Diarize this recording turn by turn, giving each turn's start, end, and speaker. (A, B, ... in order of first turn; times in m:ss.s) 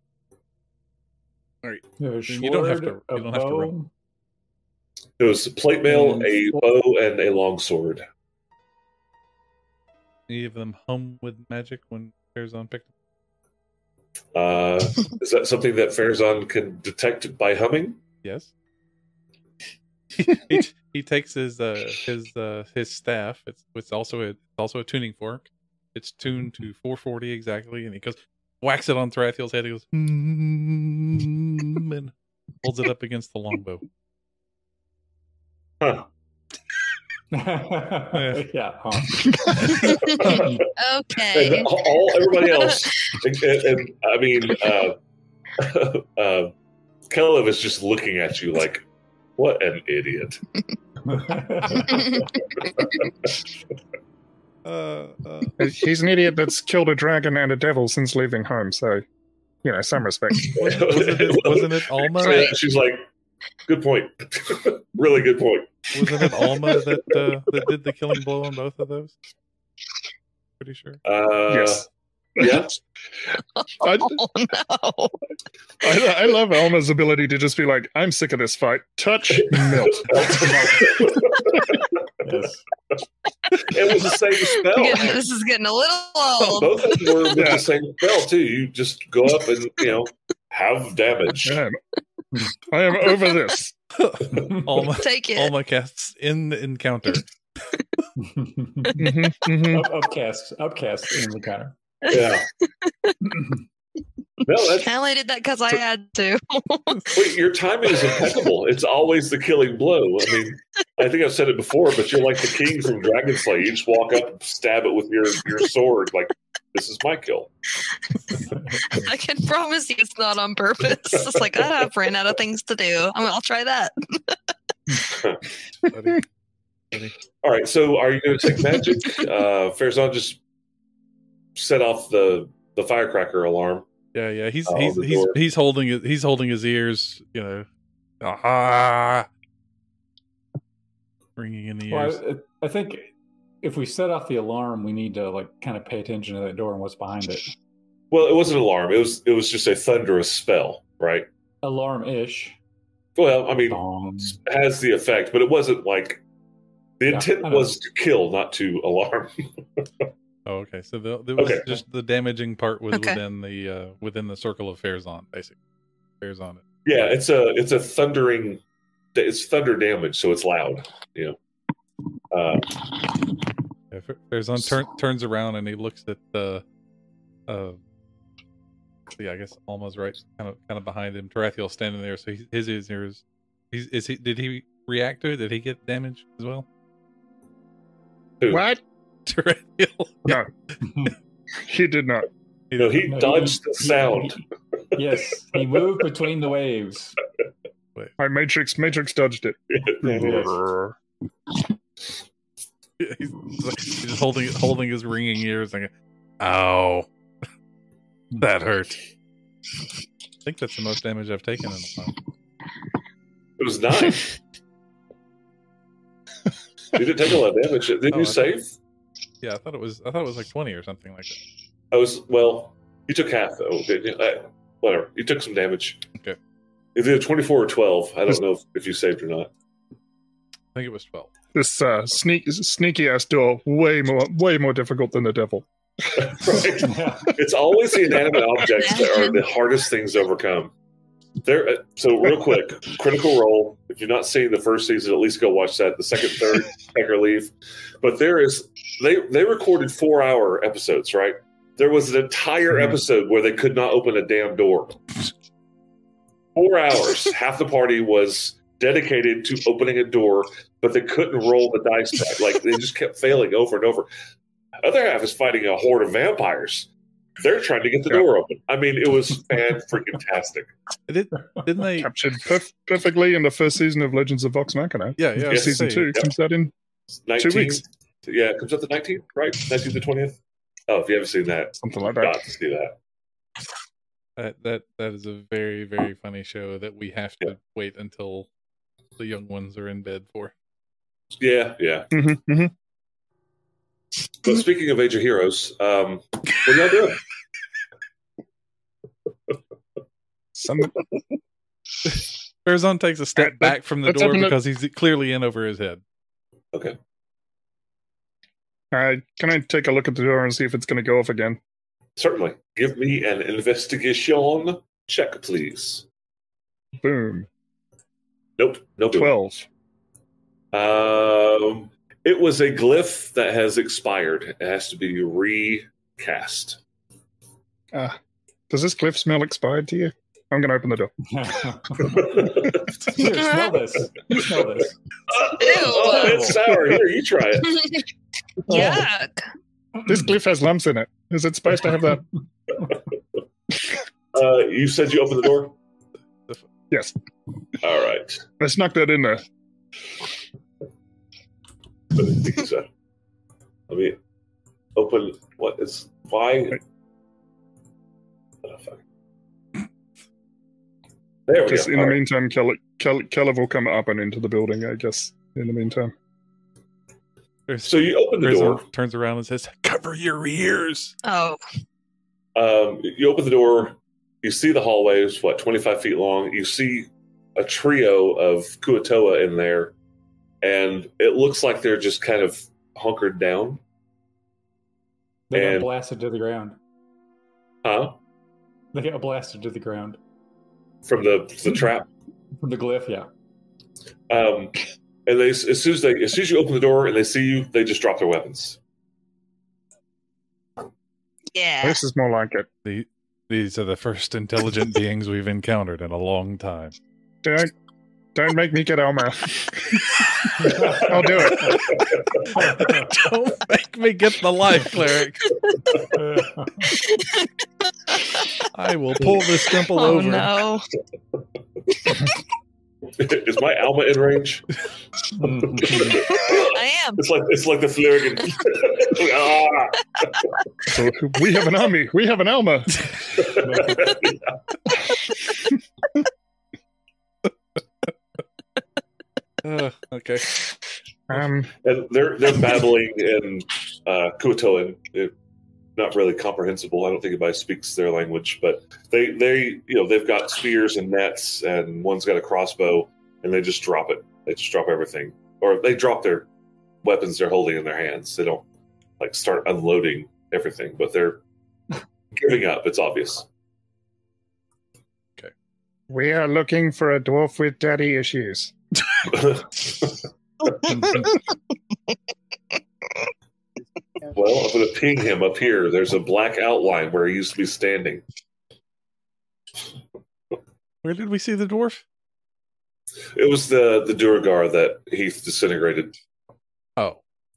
0:01.6-0:03.7 A
0:02.0-0:03.9 B
0:05.2-0:08.0 C
0:05.9-0:06.5 B
0:10.3-0:12.9 A
0:14.3-0:18.0 C
0:18.2-0:18.5 A
0:20.1-0:33.8 A
0:35.8-0:36.1 C
0:37.3-0:39.7 B
0:38.1-0:38.4 A
0:39.7-0:41.7 D
0:39.8-0:40.6 C
0:40.3-0:40.6 B
0:41.3-0:45.0 C
0:42.4-0:43.2 D
0:45.6-0:46.5 C
0:47.1-0:48.9 C
0:49.4-0:50.4 C
0:51.1-0:52.0 B
0:51.8-0:53.3 C
0:51.9-0:52.2 D
0:54.6-0:55.6 A
0:55.6-0:59.0 E
0:59.6-1:00.5 E
1:00.4-1:03.1 C
1:00.6-1:02.5 A
1:02.2-1:02.6 D
1:03.7-1:06.8 C
1:05.9-1:09.1 A
1:10.6-1:11.0 A
1:11.0-1:11.9 C
1:11.5-1:11.9 E
1:12.4-1:12.8 C
1:12.4-1:12.6 E
1:13.6-1:15.2 D
1:13.8-1:14.2 E
1:15.8-1:21.6 E
1:19.4-1:22.0 C
1:22.2-1:22.6 B
1:23.6-1:25.2 C
1:24.6-1:27.4 D
1:26.5-1:31.6 C
1:27.4-1:27.7 E
1:31.4-1:31.8 E
1:32.7-1:33.7 E
1:34.0-1:37.3 A
1:34.4-1:34.6 B
1:34.9-1:35.5 D
1:38.2-1:39.0 B
1:39.0-1:39.9 E
1:39.7-1:41.8 B
1:42.1-1:42.5 C
1:42.1-1:43.2 D
1:43.3-1:43.6 B
1:44.5-1:44.9 C
1:44.6-1:47.2 D
1:47.1-1:57.5 C
1:58.9-2:04.4 D
2:05.1-2:05.4 C
2:05.9-2:06.2 A
2:07.4-2:10.4 C
2:11.6-2:13.9 C
2:14.1-2:17.7 A
2:14.7-2:15.4 C
2:18.2-2:19.3 A
2:21.4-2:22.2 A
2:21.9-2:23.1 B
2:23.6-2:27.5 B
2:28.1-2:31.3 C
2:31.6-2:32.6 B
2:33.2-2:36.2 C
2:33.7-2:34.4 B
2:37.0-2:40.1 C
2:37.1-2:37.8 B
2:40.5-2:45.6 A
2:41.4-2:41.8 C
2:42.9-2:43.2 D
2:46.2-2:47.2 A
2:46.8-2:48.6 C
2:49.2-2:51.4 C
2:52.3-2:53.2 C
2:53.9-2:56.6 A
2:57.5-2:57.8 A
2:59.2-3:06.7 A
3:08.5-3:08.8 E
3:09.3-3:10.4 A
3:10.8-3:11.1 B
3:11.6-3:12.3 E
3:12.7-3:13.1 A
3:12.8-3:14.4 C
3:13.1-3:14.2 B
3:15.0-3:17.2 B
3:18.2-3:21.0 E
3:19.7-3:20.5 C
3:20.2-3:20.5 B
3:23.0-3:27.1 A
3:28.4-3:29.0 A
3:30.4-3:32.2 A
3:33.6-3:34.4 C
3:36.9-3:38.7 C
3:38.1-3:38.5 A
3:39.4-3:41.4 A
3:41.9-3:46.0 C
3:47.0-3:49.5 C
3:50.7-3:51.3 A
3:51.5-3:56.3 E
3:56.2-4:00.7 C
3:56.8-3:57.3 B
3:58.8-3:59.4 D
4:01.4-4:15.1 C
4:16.6-4:24.1 C
4:24.8-4:26.9 C
4:27.4-4:30.7 C
4:31.1-4:32.1 A
4:32.0-4:36.7 E
4:35.2-4:36.1 A
4:35.5-4:36.3 C
4:37.3-4:43.0 C
4:37.4-4:37.8 E
4:41.8-4:42.4 E
4:44.4-4:48.5 A
4:49.2-4:50.5 A
4:51.4-4:52.1 C
4:52.1-4:52.7 E
4:54.4-4:57.2 C
5:00.6-5:01.0 E
5:02.1-5:06.0 A
5:03.4-5:04.6 E
5:08.9-5:11.6 E
5:12.2-5:16.0 C
5:17.0-5:17.5 E
5:18.6-5:19.3 C
5:19.1-5:19.7 E
5:20.7-5:26.8 C
5:28.7-5:31.1 E
5:31.3-5:32.5 B
5:32.1-5:32.8 C
5:33.1-5:35.0 B
5:33.2-5:33.7 D
5:35.3-5:38.0 C
5:35.6-5:36.6 D
5:36.0-5:36.6 B
5:38.7-5:39.4 D
5:38.7-5:39.0 E
5:40.1-5:42.2 E
5:44.3-5:45.7 C
5:47.8-5:48.4 C
5:48.6-5:49.4 E
5:52.1-5:52.9 C
5:53.9-5:54.2 C
5:55.0-5:56.8 C
5:58.6-5:59.0 C
6:01.5-6:02.2 C
6:01.6-6:06.1 E
6:07.7-6:11.1 A
6:07.8-6:08.8 C
6:11.2-6:11.6 D
6:12.6-6:19.9 C
6:20.6-6:23.8 C
6:25.5-6:26.8 B
6:25.6-6:25.9 C
6:27.8-6:28.2 C
6:28.9-6:30.2 B
6:31.0-6:32.1 C
6:32.6-6:33.3 B
6:34.3-6:38.8 C
6:41.5-6:42.0 D
6:41.8-6:42.7 E
6:42.8-6:47.0 A
6:47.4-6:47.7 E
6:48.3-6:50.1 E
6:50.6-6:51.7 B
6:50.9-6:51.8 E
6:51.6-6:52.0 C
6:52.6-6:53.1 B
6:52.6-6:55.6 A
6:56.1-6:57.0 B
6:57.1-6:57.4 D
6:58.2-6:58.6 D
6:58.7-7:00.6 A
6:59.9-7:00.9 D
7:03.2-7:04.7 C
7:05.4-7:06.2 B
7:05.9-7:10.5 C
7:06.2-7:07.2 D
7:10.9-7:13.0 E
7:13.4-7:14.6 C
7:13.6-7:14.1 B
7:19.6-7:20.7 A
7:21.3-7:21.7 E
7:21.8-7:25.3 C
7:26.0-7:36.5 C
7:37.0-7:38.6 C
7:39.2-7:41.4 C
7:42.3-7:43.5 C
7:46.1-7:48.8 E
7:49.3-7:50.3 C
7:50.9-7:51.2 B
7:54.3-7:58.2 C
8:01.0-8:02.0 A
8:03.3-8:06.2 C